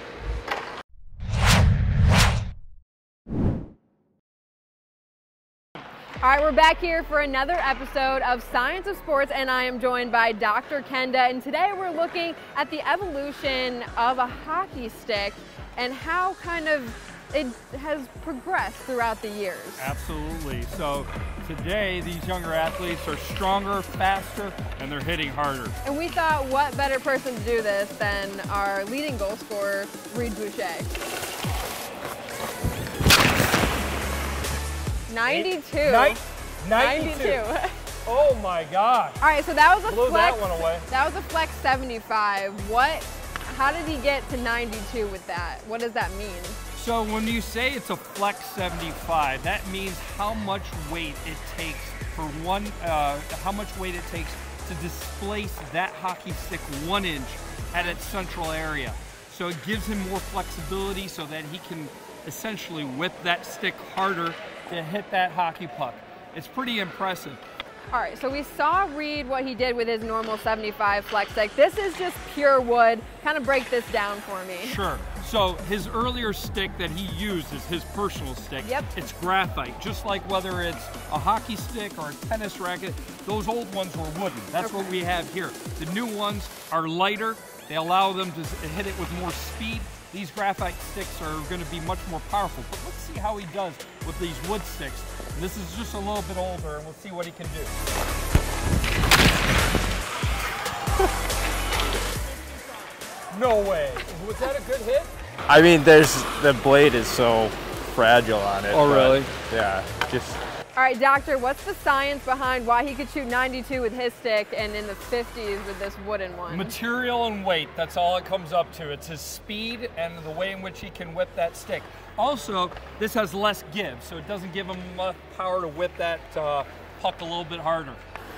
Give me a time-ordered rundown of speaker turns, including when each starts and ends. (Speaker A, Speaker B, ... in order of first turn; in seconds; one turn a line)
Speaker A: 6.2-19.9
Speaker B: 19.8-25.7
Speaker A: 25.8-30.9
Speaker A: 35.1-36.2
Speaker B: 35.2-37.4
Speaker A: 36.7-37.8
Speaker B: 38.0-39.2
Speaker A: 39.2-46.6
Speaker B: 39.9-40.9
Speaker B: 46.7-67.4
Speaker A: 67.9-74.8
Speaker B: 74.6-97.7
Speaker A: 78.6-78.9
Speaker A: 84.6-84.9
Speaker B: 103.3-105.1
Speaker C: 105.5-110.4
Speaker B: 108.7-109.3
Speaker A: 110.8-116.7
Speaker B: 116.5-128.0